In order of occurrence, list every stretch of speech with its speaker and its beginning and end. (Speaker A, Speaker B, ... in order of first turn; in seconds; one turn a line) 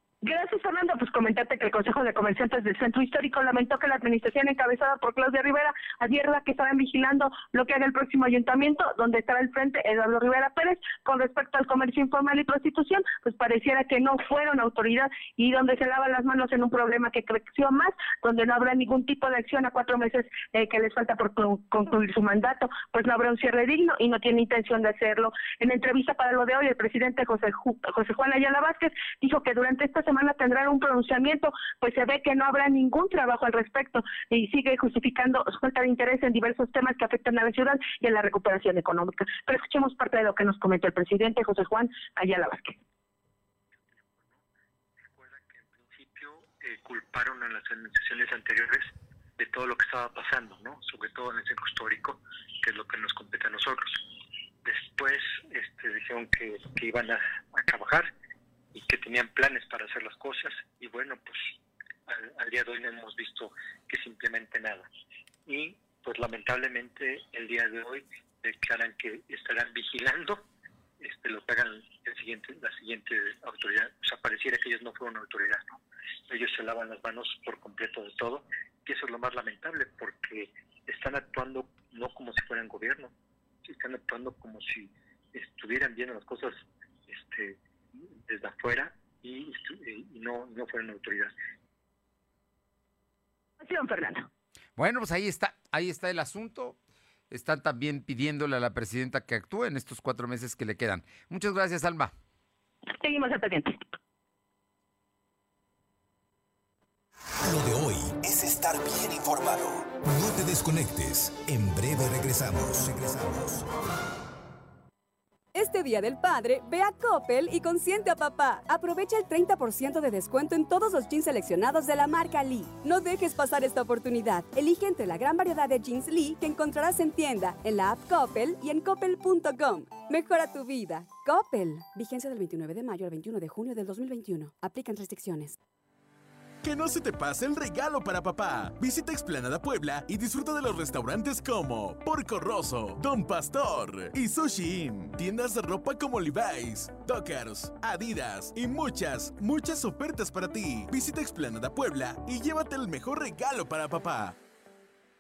Speaker A: 0.2-42.8
Speaker B: 44.1-44.4
Speaker B: 45.1-54.1
Speaker B: 54.6-58.1
Speaker B: 58.7-61.6
Speaker B: 62.1-64.9
Speaker B: 65.5-70.5
Speaker B: 71.0-83.1
Speaker B: 83.7-87.6
Speaker B: 88.2-91.3
Speaker A: 93.6-94.3
Speaker C: 94.8-96.8
Speaker C: 97.3-102.1
Speaker A: 103.0-103.8
Speaker D: 107.4-113.7
Speaker E: 115.5-135.5
Speaker F: 136.6-154.4